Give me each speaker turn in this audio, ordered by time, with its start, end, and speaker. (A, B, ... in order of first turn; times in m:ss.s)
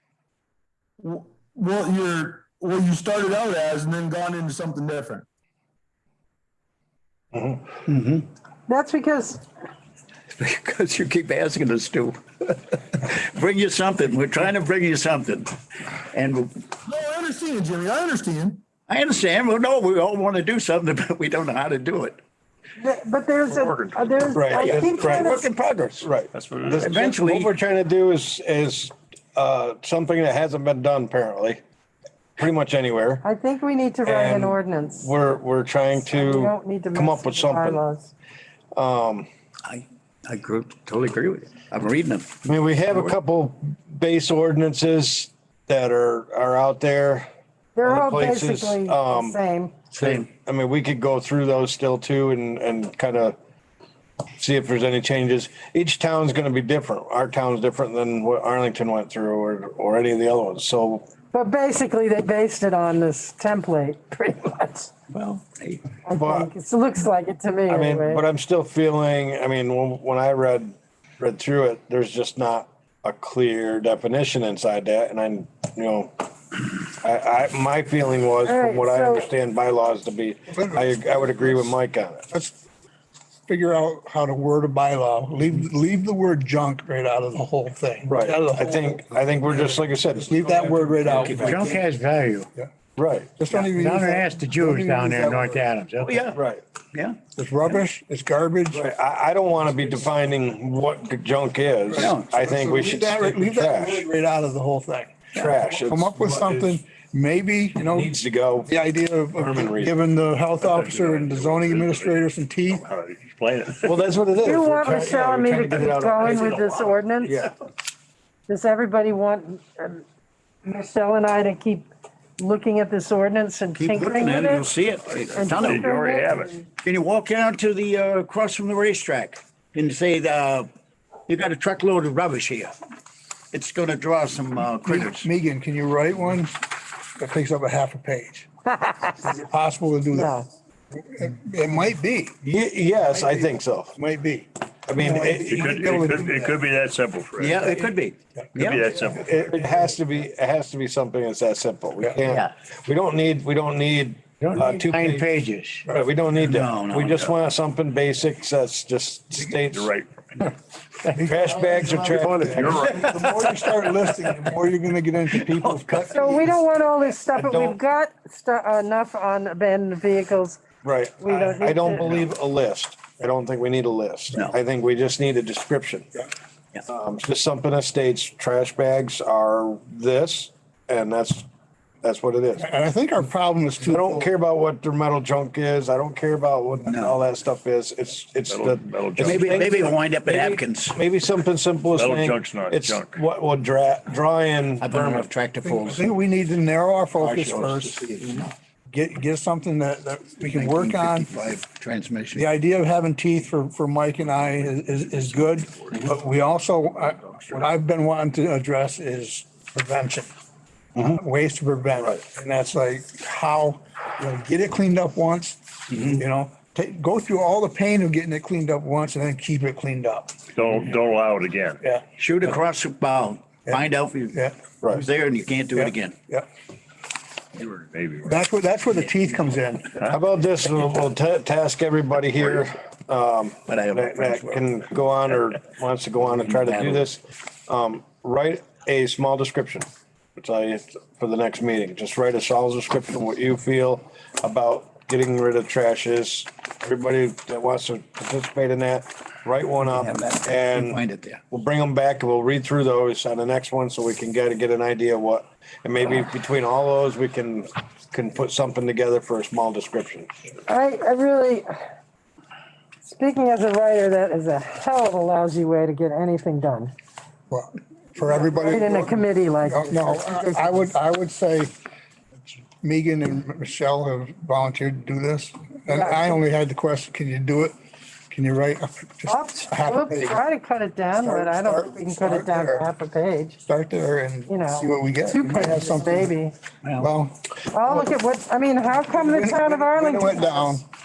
0:01.0-0:05.2 A
0:07.9-0:08.2 B
0:08.7-0:09.4 C
0:10.3-0:15.6 B
0:16.1-0:16.6 B
0:16.9-0:18.6 A
0:17.1-0:18.4 D
0:18.9-0:22.2 B
0:22.8-0:25.5 C
0:23.5-0:24.2 E
0:24.3-0:25.4 F
0:24.6-0:26.0 B
0:26.0-0:31.6 F
0:26.3-0:27.0 E
0:26.8-0:27.5 B
0:32.4-0:33.2 F
0:33.2-0:35.2 C
0:34.0-0:37.8 F
0:36.0-0:38.1 C
0:38.7-0:39.3 F
0:39.6-0:42.3 B
0:42.4-0:47.3 F
0:47.8-0:49.7 C
0:47.8-0:49.4 F
0:49.9-0:50.3 B
0:50.0-0:53.4 F
0:54.4-1:01.1 F
1:01.3-1:04.9 C
1:05.1-1:05.8 B
1:06.0-1:08.2 C
1:06.2-1:06.5 F
1:07.7-1:16.2 F
1:17.0-1:22.2 F
1:18.4-1:19.3 C
1:20.5-1:21.7 G
1:22.3-1:22.6 G
1:23.5-1:31.8 G
1:28.1-1:31.8 F
1:31.0-1:31.9 B
1:31.7-1:32.4 D
1:33.0-1:33.3 F
1:33.4-1:35.7 G
1:33.6-1:36.1 D
1:36.0-1:36.4 B
1:36.3-1:36.6 F
1:36.9-1:37.2 B
1:37.4-1:38.8 G
1:38.7-1:44.0 F
1:41.9-1:48.1 G
1:42.0-1:42.2 B
1:45.3-1:46.8 F
1:47.8-1:48.8 F
1:48.6-1:52.8 G
1:49.3-1:49.9 F
1:50.6-1:54.0 E
1:53.8-1:56.6 F
1:54.4-1:57.5 C
1:56.2-1:56.8 E
1:57.2-1:57.5 F
1:58.5-2:00.0 C
2:00.6-2:04.7 C
2:03.8-2:05.8 B
2:05.2-2:06.5 E
2:05.3-2:06.6 C
2:06.8-2:10.7 B
2:11.3-2:12.7 B
2:13.5-2:15.3 B
2:14.8-2:16.6 G
2:17.2-2:18.5 G
2:18.8-2:19.1 C
2:19.2-2:22.4 G
2:20.1-2:20.4 C
2:22.4-2:23.9 F
2:23.2-2:24.5 G
2:24.9-2:25.6 F
2:25.0-2:25.4 C
2:25.0-2:26.6 G
2:25.5-2:27.9 E
2:27.4-2:28.9 B
2:28.6-2:29.5 E
2:29.1-2:35.3 F
2:32.2-2:32.5 B
2:34.6-2:35.6 B
2:35.8-2:39.9 F
2:36.4-2:37.2 B
2:39.6-2:40.3 E
2:41.1-2:46.2 G
2:41.2-2:42.8 F
2:42.5-2:43.5 E
2:45.4-2:46.5 F
2:46.1-2:50.6 C
2:47.3-2:47.8 F
2:50.8-2:56.2 F
2:51.2-2:52.3 C
2:56.9-3:01.4 F
3:02.0-3:02.7 F
3:02.6-3:04.3 G
3:03.9-3:15.3 F
3:06.9-3:07.2 B
3:08.5-3:09.8 E
3:09.2-3:11.0 B
3:11.9-3:13.2 E
3:14.8-3:16.1 B
3:15.6-3:18.0 G
3:17.2-3:18.5 F
3:18.9-3:21.3 G
3:20.4-3:22.5 B
3:22.3-3:30.3 G
3:24.2-3:26.0 E
3:31.0-3:40.4 G
3:35.9-3:36.2 B
3:40.5-3:41.8 E
3:42.2-3:44.4 B
3:44.3-3:44.6 G
3:44.9-3:46.2 B
3:45.7-3:46.5 G
3:47.6-3:48.4 E
3:48.2-3:49.9 G
3:50.1-4:20.3 F
3:53.7-3:54.6 B
3:56.2-3:57.1 B
4:09.8-4:11.4 B
4:20.7-4:21.7 C
4:23.0-4:26.9 C
4:27.5-4:31.7 G
4:28.3-4:30.5 C
4:32.4-4:37.7 G
4:35.9-4:36.3 C
4:38.3-4:40.4 G
4:39.3-4:43.6 C
4:41.2-4:42.9 G
4:43.6-4:46.3 G
4:44.5-4:46.5 C
4:46.8-4:47.1 B
4:47.0-4:48.1 G
4:47.7-4:50.8 C
4:49.0-4:50.8 G